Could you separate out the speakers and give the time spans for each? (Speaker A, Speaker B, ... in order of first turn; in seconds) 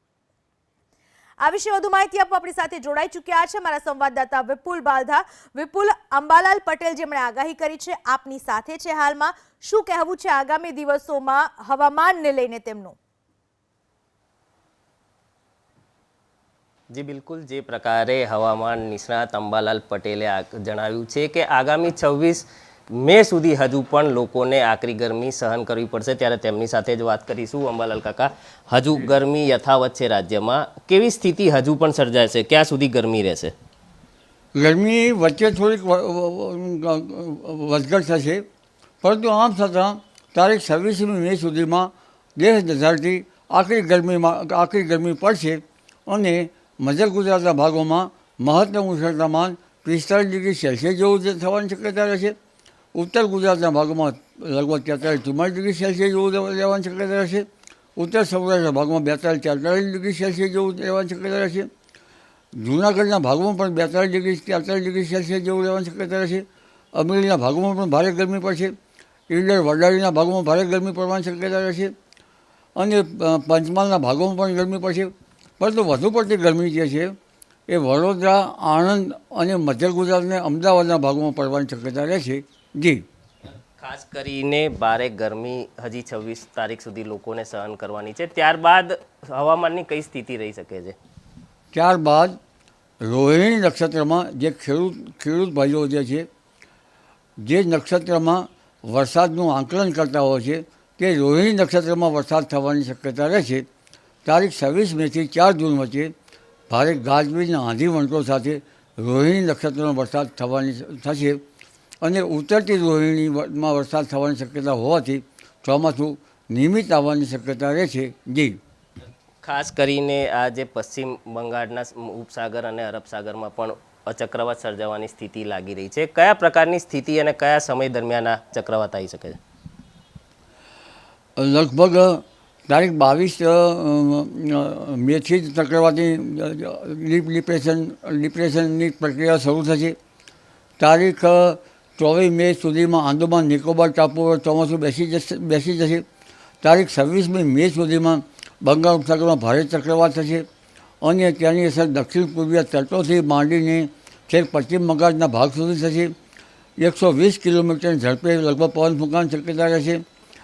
Speaker A: 1.4-12.9
Speaker B: 16.9-33.5, 83.8-90.9, 119.4-129.4
Speaker C: 34.5-38.4, 39.0-52.3, 52.9-61.7, 62.5-68.7, 69.3-71.9, 72.8-77.1, 77.7-83.0, 91.7-92.4, 93.0-96.3, 97.4-103.7, 104.2-106.1, 106.7-111.4, 112.0-118.6, 131.4-139.9, 140.8-146.0, 146.6-150.4, 151.0-156.1, 156.8-160.0